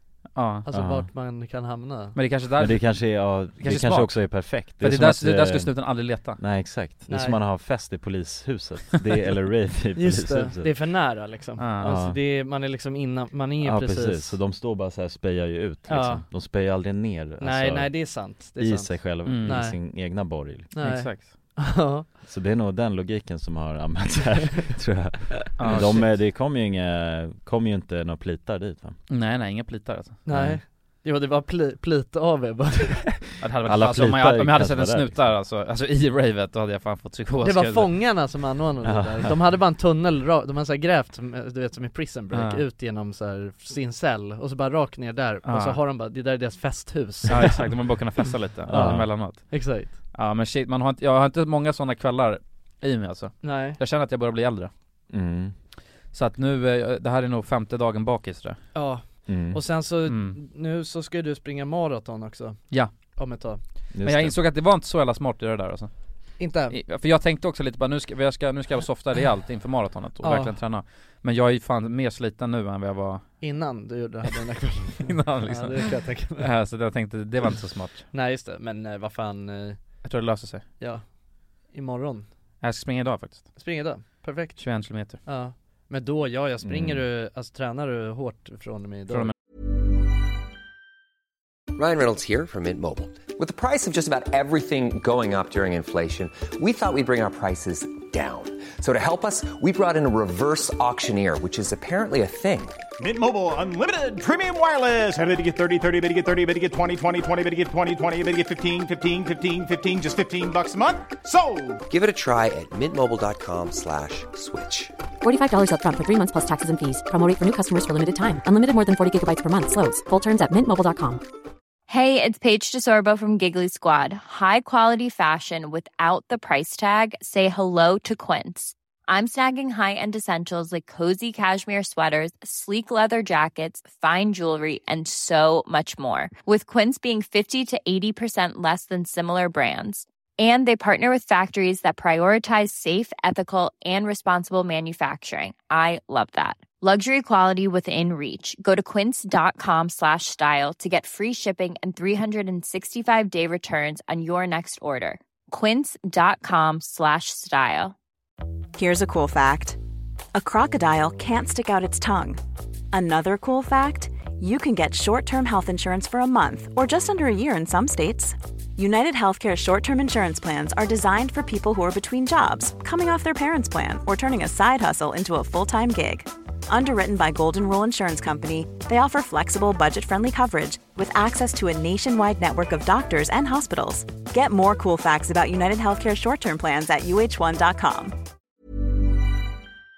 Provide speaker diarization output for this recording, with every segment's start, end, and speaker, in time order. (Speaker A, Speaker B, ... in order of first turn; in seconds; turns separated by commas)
Speaker A: 0.3-0.7, Speaker B: 0.7-2.2, Speaker C: 0.7-1.1, Speaker A: 2.1-6.4, Speaker C: 2.6-10.7, Speaker B: 7.1-7.4, Speaker B: 9.9-14.4, Speaker A: 11.6-11.9, Speaker C: 11.8-12.2, Speaker C: 13.6-20.7, Speaker B: 15.9-16.3, Speaker B: 17.4-20.2, Speaker A: 19.2-19.6, Speaker B: 20.7-22.1, Speaker A: 20.8-21.3, Speaker C: 22.2-29.0, Speaker B: 25.6-26.1, Speaker A: 25.6-26.0, Speaker A: 29.1-30.2, Speaker B: 30.2-33.2, Speaker C: 30.3-30.6, Speaker A: 33.4-37.9, Speaker C: 33.6-35.3, Speaker B: 37.4-47.7, Speaker C: 38.8-39.4, Speaker A: 42.3-42.6, Speaker A: 45.5-45.8, Speaker A: 47.3-49.6, Speaker C: 48.7-49.1, Speaker B: 49.5-49.9, Speaker A: 50.1-54.7, Speaker B: 53.4-53.8, Speaker C: 55.1-55.5, Speaker A: 56.1-58.6, Speaker B: 58.7-63.6, Speaker C: 59.2-59.6, Speaker A: 60.1-60.4, Speaker C: 63.9-64.4, Speaker A: 64.0-73.5, Speaker B: 66.4-66.8, Speaker B: 70.2-70.6, Speaker B: 73.4-76.5, Speaker A: 75.0-78.1, Speaker B: 78.1-79.8, Speaker A: 80.0-80.6, Speaker B: 81.7-82.3, Speaker A: 82.6-83.6, Speaker B: 83.5-84.7, Speaker A: 84.6-85.2, Speaker B: 85.2-89.3, Speaker C: 86.6-87.0, Speaker D: 91.7-102.8, Speaker E: 103.0-111.8, Speaker D: 111.9-114.9, Speaker F: 115.2-121.2, Speaker G: 121.9-157.9, Speaker H: 158.8-159.8, Speaker H: 160.3-162.4, Speaker H: 162.9-188.1